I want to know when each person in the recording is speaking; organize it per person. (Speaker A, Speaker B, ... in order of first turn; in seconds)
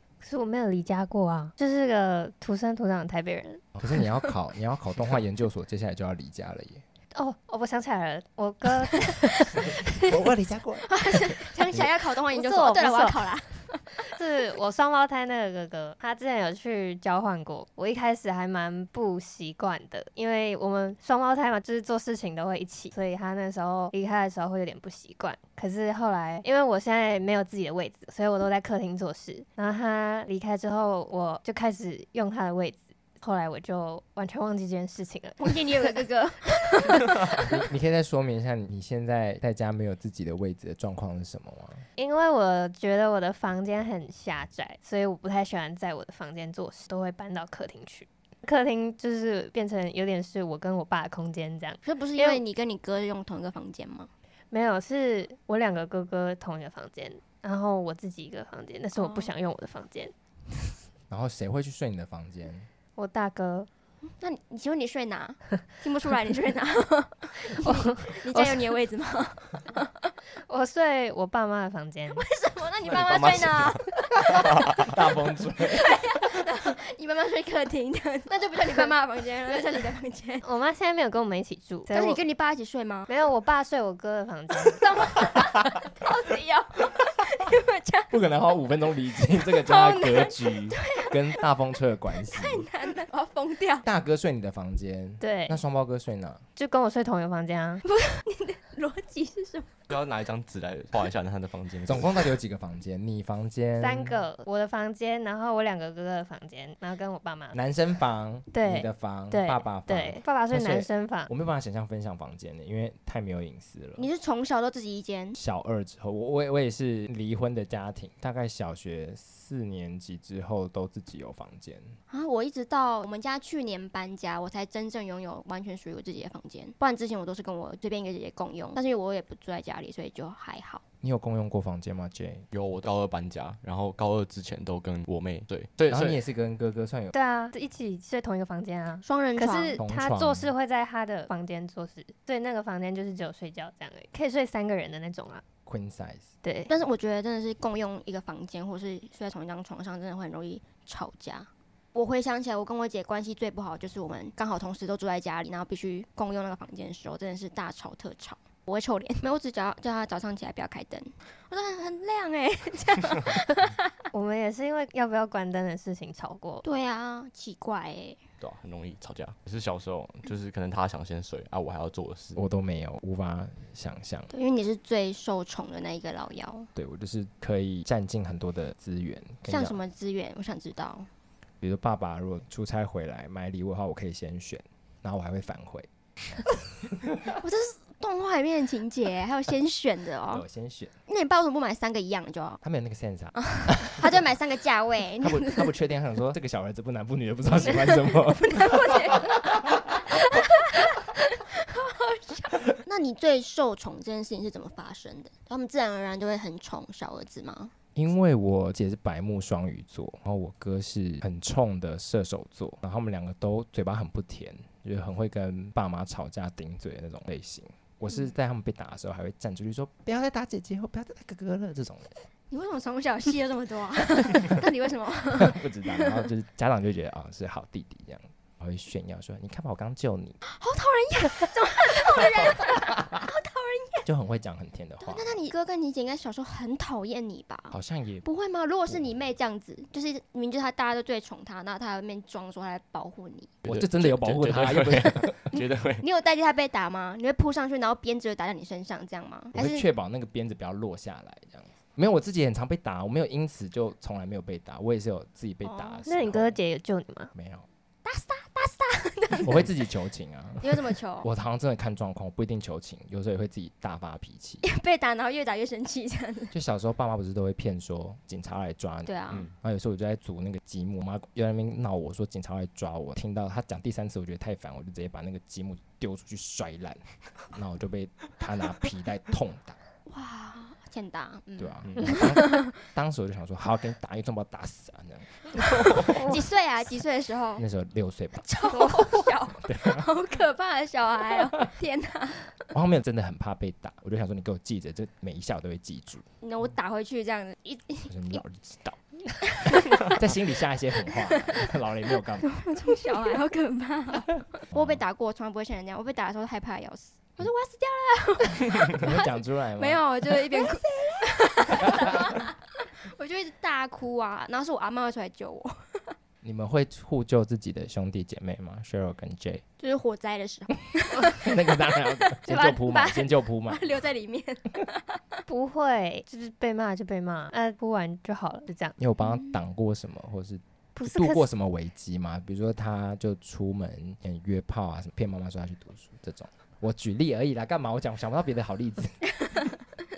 Speaker A: 0.2-3.6, 7.1-9.9, 12.3-13.3, 13.9-36.0, 42.0-52.4, 54.5-60.1, 63.0-63.7, 67.6-68.7, 70.5-72.2, 80.4-82.2, 83.1-84.8, 95.2-95.6, 96.5-97.8, 103.8-107.5, 108.5-111.3, 137.1-145.4, 146.4-146.7, 164.1-166.6, 256.1-257.3, 288.7-289.2, 322.5-323.1, 325.5-328.9, 330.9-331.5
Speaker B: 3.7-6.8, 9.5-11.8, 37.4-41.8, 61.1-62.7, 74.3-76.4, 88.1-92.7, 93.8-96.4, 101.8-104.2, 107.5-114.1, 115.3-121.9, 131.0-132.4, 135.9-137.1, 139.8-140.5, 145.7-146.3, 172.3-174.3, 176.8-179.8, 181.6-185.9, 186.9-187.4, 190.3-190.9, 192.6-194.2, 195.2-200.2, 207.9-222.1, 225.3-230.4, 234.0-235.4, 237.7-238.2, 243.7-245.5, 249.5-256.6, 257.3-257.6, 259.4-264.6, 266.5-279.8, 281.6-286.4, 287.6-288.6, 289.6-290.1, 292.7-296.2, 298.1-299.0, 299.6-302.6, 304.7-305.0, 309.0-310.6, 311.8-312.4, 316.4-319.6, 321.3-323.8, 329.0-339.2
Speaker C: 9.1-9.9, 10.8-14.1, 35.4-37.4, 51.8-54.1, 59.0-59.3, 64.0-70.1, 72.1-74.9, 75.5-80.4, 81.9-83.1, 84.8-88.2, 89.4-91.4, 92.2-93.9, 97.8-99.7, 114.0-115.4, 122.1-130.8, 139.0-139.8, 146.7-164.0, 166.6-168.2, 174.3-176.7, 179.5-181.1, 187.3-190.4, 191.1-192.6, 193.4-195.7, 197.6-207.7, 222.5-226.2, 230.4-234.1, 235.0-243.6, 245.5-249.8, 255.6-256.1, 258.0-259.8, 260.6-261.3, 264.6-266.5, 269.1-269.5, 280.1-282.7, 285.9-287.6, 288.4-292.5, 296.4-298.4, 299.4-300.3, 301.1-301.7, 302.3-316.1, 319.8-321.7, 322.3-325.4, 329.2-329.6
Speaker D: 72.8-74.9, 99.9-102.3, 132.5-136.2, 168.4-172.4, 243.6-246.0, 281.8-282.2